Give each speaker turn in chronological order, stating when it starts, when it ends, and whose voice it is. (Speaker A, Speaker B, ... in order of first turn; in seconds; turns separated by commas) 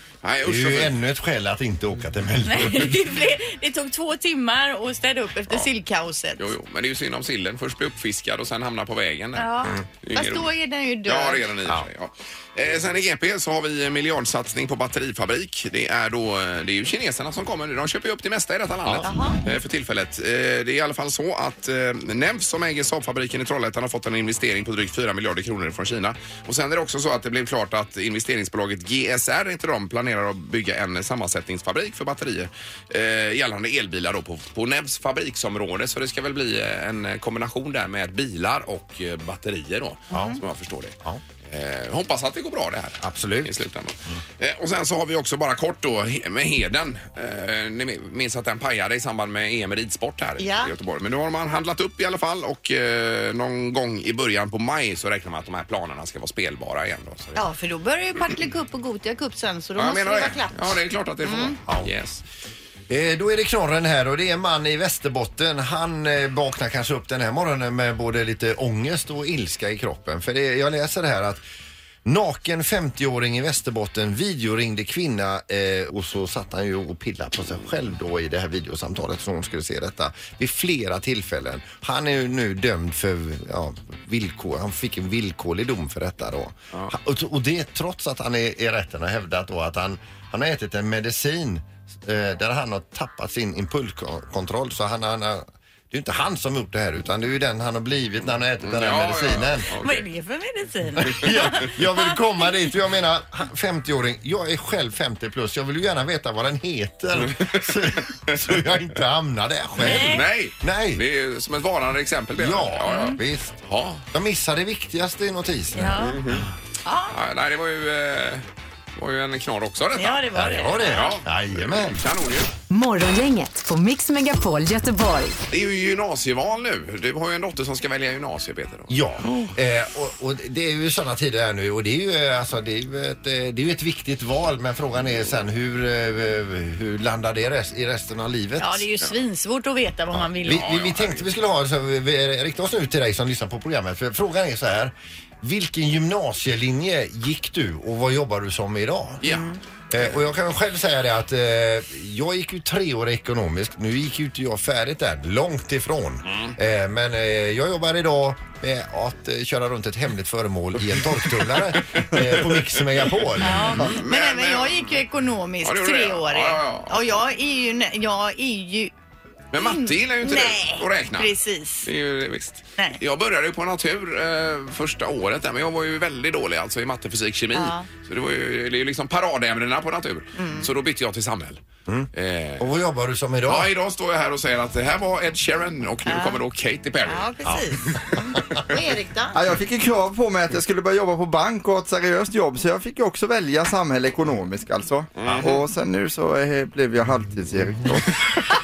Speaker A: 0.2-0.9, Speaker B: 0.4-3.0, Speaker C: 2.4-6.5, Speaker A: 6.4-10.5, Speaker C: 9.3-11.4, Speaker A: 11.0-57.4, Speaker C: 19.0-19.4, Speaker B: 40.1-40.4, Speaker C: 40.1-40.4, Speaker B: 43.0-43.5, Speaker C: 50.4-50.7, Speaker C: 57.3-61.5, Speaker A: 59.8-62.2, Speaker B: 62.9-71.4, Speaker B: 72.0-99.7, Speaker A: 98.6-100.0, Speaker C: 99.8-102.4, Speaker B: 101.0-111.0, Speaker A: 107.3-108.4, Speaker C: 109.8-110.2, Speaker A: 109.8-114.0, Speaker B: 112.4-116.4, Speaker C: 112.9-113.2, Speaker C: 115.8-116.2, Speaker A: 116.1-116.4, Speaker C: 116.8-117.2, Speaker A: 117.1-118.4, Speaker A: 119.0-120.2, Speaker C: 120.0-121.0, Speaker B: 120.3-122.0, Speaker A: 120.9-122.5, Speaker D: 122.7-125.4, Speaker A: 125.5-129.5, Speaker B: 128.9-138.8, Speaker C: 138.6-140.6, Speaker B: 140.4-149.3, Speaker A: 140.5-141.3, Speaker A: 149.2-149.5, Speaker C: 149.2-149.6, Speaker B: 149.9-163.8, Speaker A: 156.3-156.5, Speaker A: 163.1-165.0, Speaker C: 163.4-168.9, Speaker A: 165.6-167.1, Speaker A: 169.5-171.3, Speaker C: 169.5-171.9, Speaker A: 171.8-181.6, Speaker C: 177.5-177.9, Speaker C: 180.3-180.7, Speaker B: 181.9-183.7, Speaker A: 182.1-182.7, Speaker A: 183.5-187.6, Speaker C: 186.1-186.4, Speaker C: 187.0-189.4, Speaker B: 187.4-188.4, Speaker E: 189.3-198.2, Speaker A: 195.2-195.5, Speaker B: 195.2-195.5